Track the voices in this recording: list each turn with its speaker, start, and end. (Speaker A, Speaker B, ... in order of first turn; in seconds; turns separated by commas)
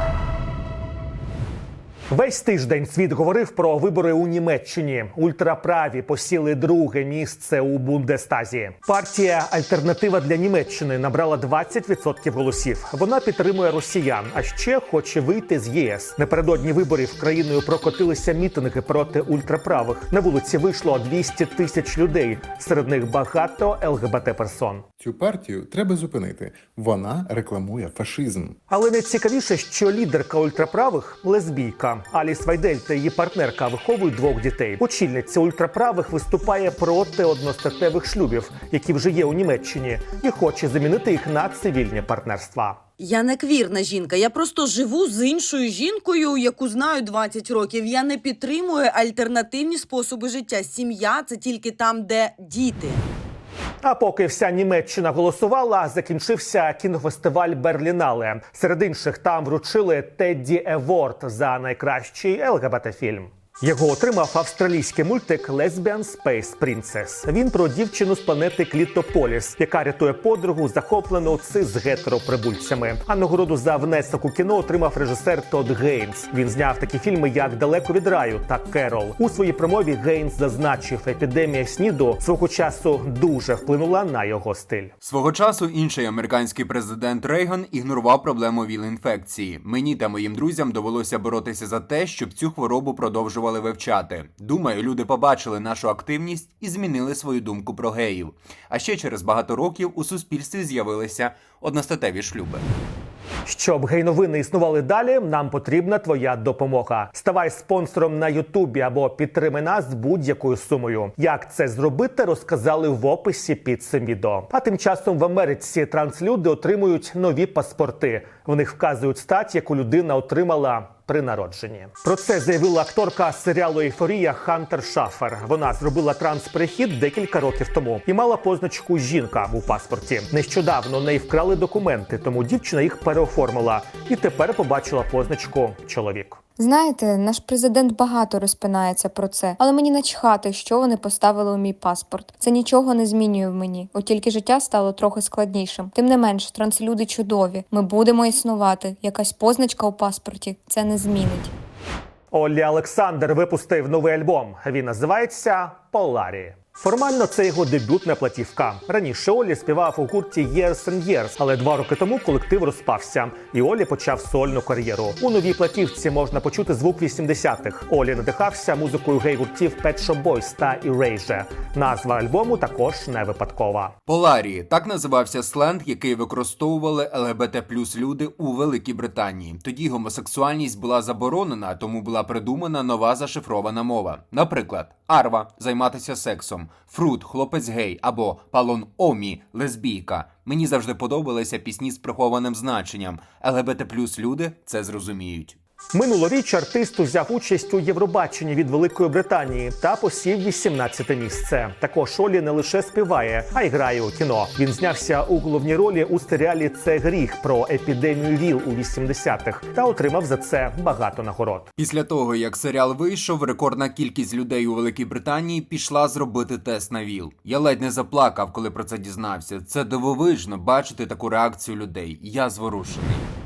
Speaker A: 2.1-24.8, Speaker B: 25.0-28.6, Speaker A: 28.7-42.8, Speaker C: 43.0-53.0, Speaker A: 53.8-84.9, Speaker D: 85.0-102.6, Speaker A: 103.5-136.4, Speaker E: 136.6-151.5, Speaker A: 152.3-173.9, Speaker D: 174.1-195.6, Speaker A: 195.9-211.7, Speaker D: 211.8-223.2